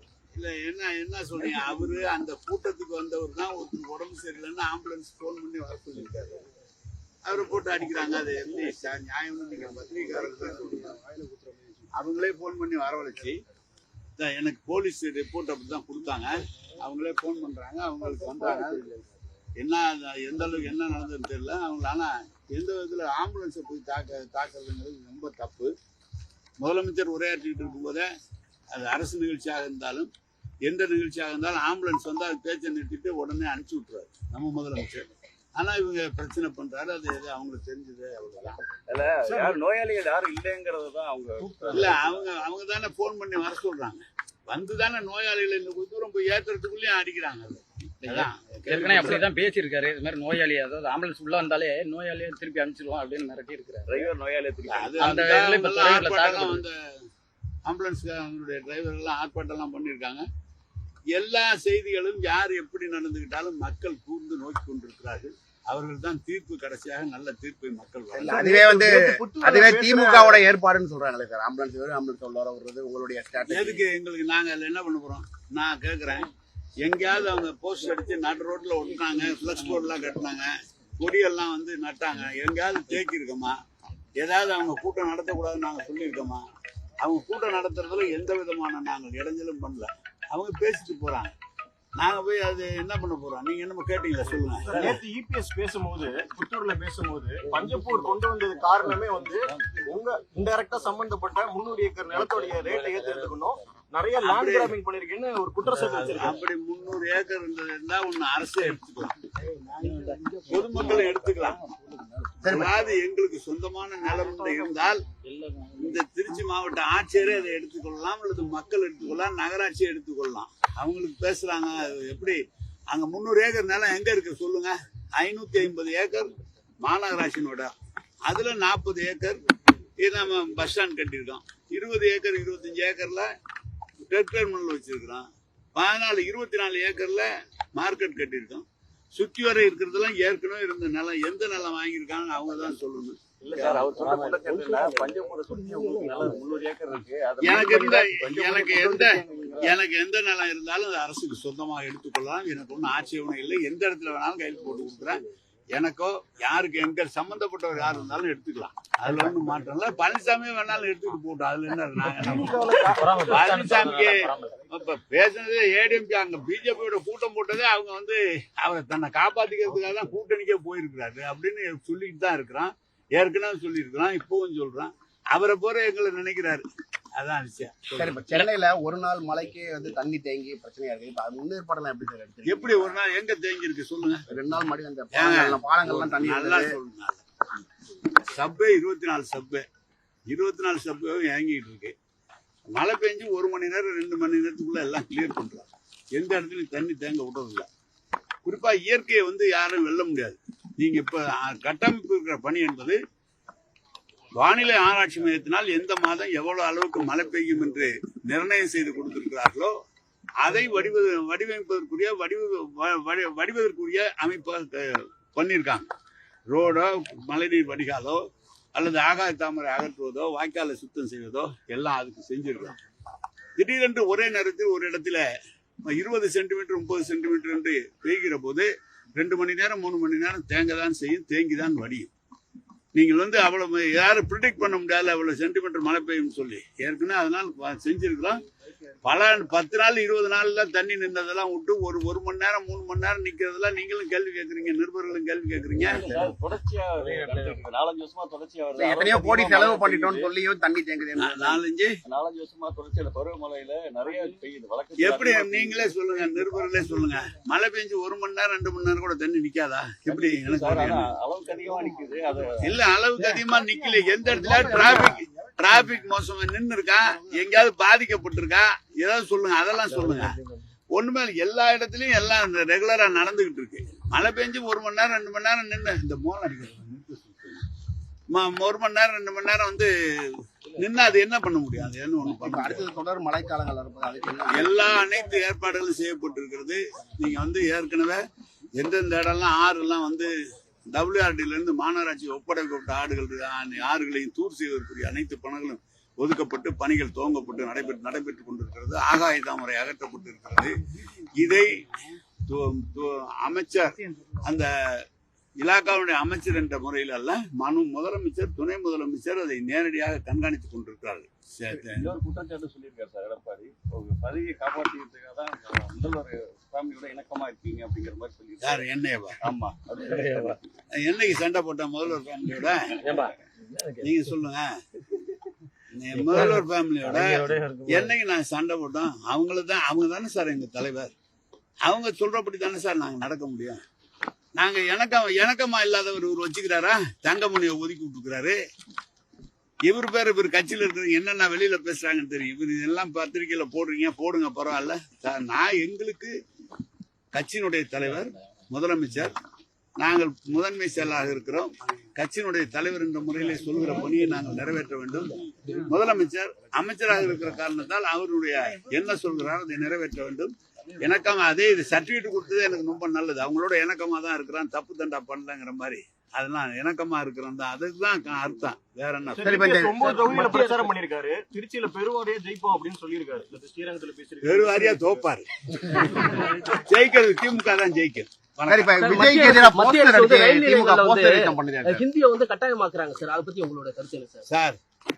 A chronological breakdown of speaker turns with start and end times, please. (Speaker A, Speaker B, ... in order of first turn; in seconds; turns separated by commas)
Speaker A: 0.3-6.4, Speaker A: 7.2-11.0, Speaker A: 11.9-13.4, Speaker A: 14.2-18.9, Speaker A: 19.6-25.7, Speaker A: 26.6-28.1, Speaker A: 28.7-30.1, Speaker A: 30.6-38.6, Speaker B: 38.9-42.1, Speaker C: 39.2-39.5, Speaker A: 41.7-49.2, Speaker D: 48.7-54.1, Speaker B: 53.9-55.2, Speaker A: 54.7-56.8, Speaker D: 55.0-56.6, Speaker A: 57.6-60.2, Speaker A: 61.1-68.5, Speaker C: 68.2-70.4, Speaker E: 68.2-73.8, Speaker A: 73.5-76.3, Speaker A: 76.8-83.5, Speaker A: 84.2-86.4, Speaker A: 87.0-91.3, Speaker A: 92.0-95.0, Speaker C: 94.5-106.4, Speaker D: 102.2-103.0, Speaker A: 104.2-104.7, Speaker A: 106.0-109.3, Speaker D: 109.4-112.5, Speaker A: 110.5-111.6, Speaker E: 112.4-112.8, Speaker A: 112.4-115.0, Speaker C: 114.4-114.8, Speaker D: 115.1-116.0, Speaker A: 115.8-127.7, Speaker A: 128.2-129.4, Speaker A: 130.0-133.3, Speaker A: 134.0-143.2, Speaker B: 143.4-149.7, Speaker D: 143.6-144.4, Speaker F: 144.4-146.3, Speaker A: 147.4-176.6, Speaker C: 162.2-163.5, Speaker D: 162.9-164.5, Speaker A: 177.2-178.4, Speaker E: 177.9-183.0, Speaker A: 182.4-184.3, Speaker E: 184.3-186.8, Speaker A: 185.1-187.2, Speaker A: 188.3-189.7, Speaker A: 190.3-191.9, Speaker A: 192.7-197.7, Speaker A: 198.4-203.0, Speaker A: 204.4-209.7, Speaker A: 210.4-215.9, Speaker A: 216.5-218.2, Speaker A: 218.7-222.8, Speaker A: 223.6-225.2, Speaker A: 225.8-232.1, Speaker A: 232.9-238.4, Speaker A: 239.0-246.1, Speaker B: 245.8-250.3, Speaker D: 247.0-247.4, Speaker E: 248.8-251.6, Speaker A: 251.2-251.9, Speaker B: 252.0-255.9, Speaker A: 255.0-261.1, Speaker B: 260.1-262.7, Speaker A: 262.6-270.4, Speaker E: 263.7-265.9, Speaker E: 267.0-267.4, Speaker D: 269.9-270.6, Speaker A: 270.9-277.6, Speaker A: 278.3-282.9, Speaker E: 282.2-284.9, Speaker A: 284.5-288.2, Speaker A: 288.7-290.3, Speaker A: 290.9-300.8, Speaker A: 301.3-301.8, Speaker A: 302.4-305.0, Speaker A: 305.6-312.1, Speaker B: 311.7-318.9, Speaker A: 318.6-319.4, Speaker B: 319.4-320.6, Speaker D: 320.1-320.6, Speaker A: 321.0-322.9, Speaker D: 323.0-324.2, Speaker A: 324.0-324.7, Speaker A: 325.9-331.1, Speaker D: 326.1-328.1, Speaker A: 331.8-333.8, Speaker A: 334.6-338.6, Speaker A: 339.8-346.3, Speaker A: 347.3-349.3, Speaker A: 350.0-369.7, Speaker C: 369.3-375.3, Speaker E: 369.4-370.0, Speaker F: 370.0-370.9, Speaker A: 374.4-375.5, Speaker C: 376.2-376.5, Speaker A: 376.7-379.1, Speaker E: 378.7-382.0, Speaker F: 379.0-384.4, Speaker A: 384.5-384.8